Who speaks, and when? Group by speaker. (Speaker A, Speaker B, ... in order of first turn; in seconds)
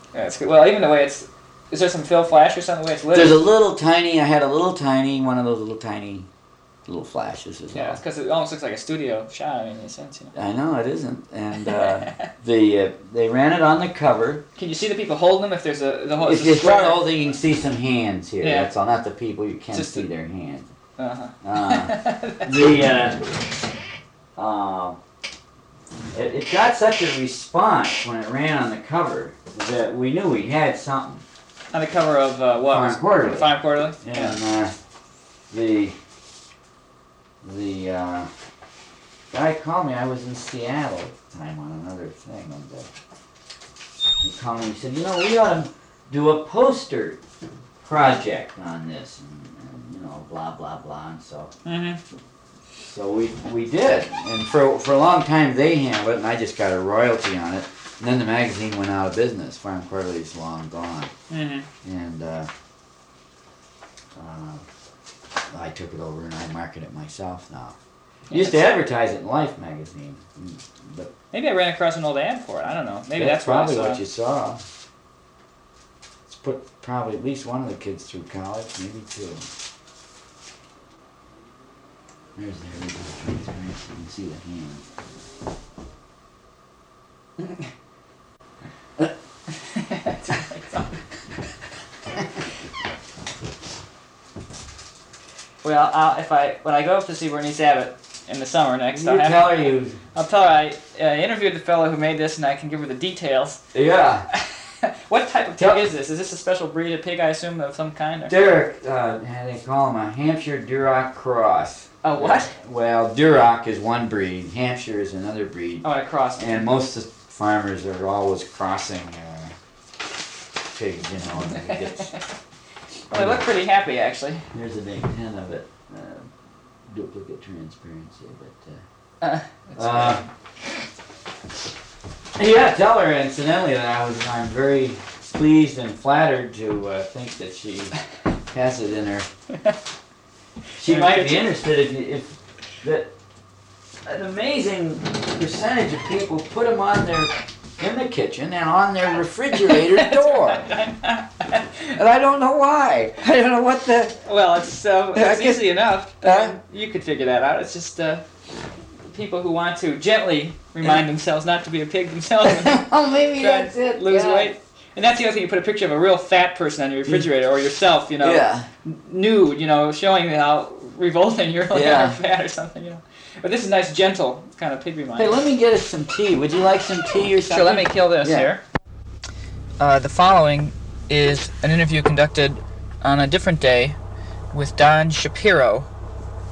Speaker A: 0.1-3.4, 7.7-10.3, 11.6-12.3, 14.6-17.1, 18.4-18.7, 19.7-20.1, 21.0-22.8, 31.7-34.4, 51.6-52.0, 61.3-61.7, 68.3-68.6, 71.3-74.0, 89.6-90.9, 95.6-103.6, 104.3-108.4, 112.0-112.5, 115.8-116.7, 121.6-122.2, 123.1-124.5, 129.2-130.3, 140.8-141.5, 149.5-152.0, 154.2-158.2, 159.1-175.4, 177.4-178.6, 179.8-184.0, 184.5-185.9
Speaker B: 3.1-6.3, 6.8-8.0, 10.3-14.4, 16.2-20.7, 21.4-23.2, 24.4-25.0, 26.1-31.2, 32.6-33.5, 34.0-34.7, 35.5-35.9, 37.4-38.3, 39.3-42.9, 44.2-47.2, 47.8-51.5, 52.8-61.1, 61.8-62.5, 64.1-64.6, 65.5-67.8, 68.3-71.1, 73.2-74.6, 76.3-79.4, 82.4-84.8, 98.9-100.0, 103.7-104.3, 105.6-105.8, 108.3-119.5, 120.7-122.1, 123.1-123.5, 124.5-126.3, 126.9-128.8, 129.8-130.2, 132.4-137.9, 138.5-139.3, 140.8-142.3, 142.8-143.1, 144.1-150.7, 151.9-154.2, 155.1-155.7, 156.2-156.6, 162.4-164.5, 168.2-168.7, 171.7-172.2, 175.2-178.5